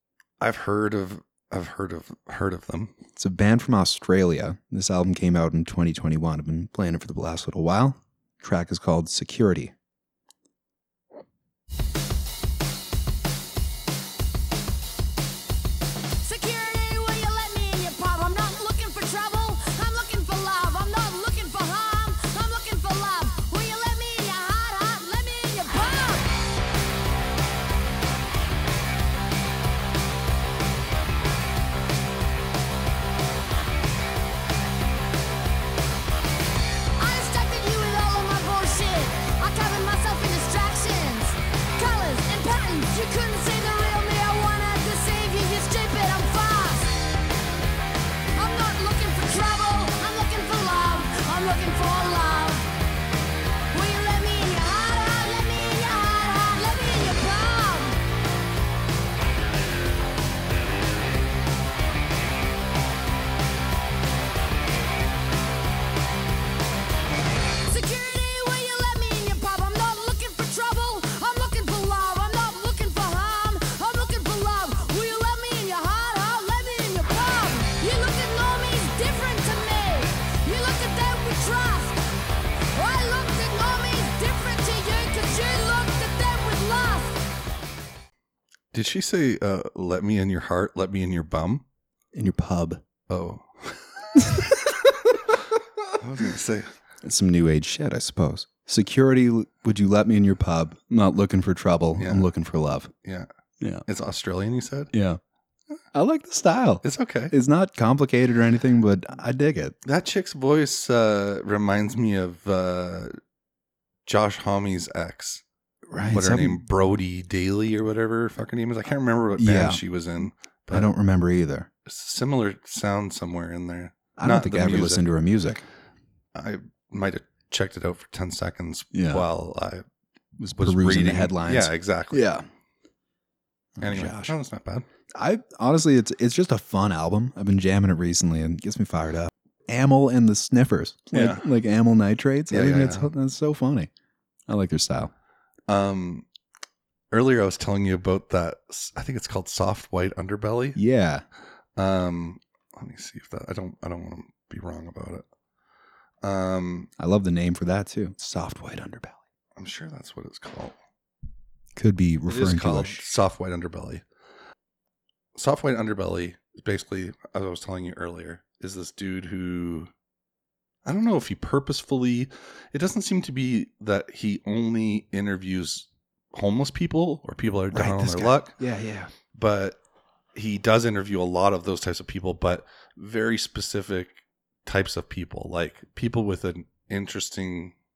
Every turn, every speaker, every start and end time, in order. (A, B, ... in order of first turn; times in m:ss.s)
0:00.4-0:02.9 A
0:03.2-0:09.7 B
0:16.2-0:26.3 C
0:37.0-0:47.0 C
0:48.4-0:52.7 C
0:53.7-0:58.0 C
1:07.7-1:22.0 C
1:22.7-1:27.2 C
1:28.7-1:31.6 A
1:32.1-1:32.8 B
1:33.1-1:34.6 A
1:34.3-1:35.2 B
1:36.0-1:36.7 A
1:37.0-1:42.9 B
1:42.0-1:42.3 A
1:43.6-1:43.9 B
1:43.9-1:44.9 A
1:44.9-1:45.2 B
1:45.9-1:49.8 B
1:46.8-1:47.3 A
1:49.8-1:53.2 A
1:54.1-1:55.4 A
1:55.9-1:56.6 B
1:56.0-2:00.9 A
1:59.4-1:59.8 B
2:00.7-2:01.7 B
2:01.9-2:05.1 A
2:04.2-2:05.6 B
2:06.4-2:09.8 A
2:08.9-2:09.3 B
2:10.4-2:12.4 B
2:10.5-2:12.3 A
2:13.8-2:14.3 B
2:13.8-2:14.8 A
2:15.1-2:23.9 B
2:21.1-2:21.4 A
2:22.5-2:23.1 A
2:24.5-2:25.1 B
2:25.7-2:26.3 A
2:27.1-2:30.8 A
2:30.8-2:31.2 B
2:31.8-2:35.2 A
2:36.2-2:36.9 A
2:37.0-2:39.2 B
2:39.6-2:40.8 A
2:41.8-2:43.0 B
2:42.3-2:44.0 A
2:45.4-2:49.9 A
2:50.8-2:58.6 A
2:57.7-2:59.1 B
2:59.3-2:59.8 A
3:00.4-3:07.7 A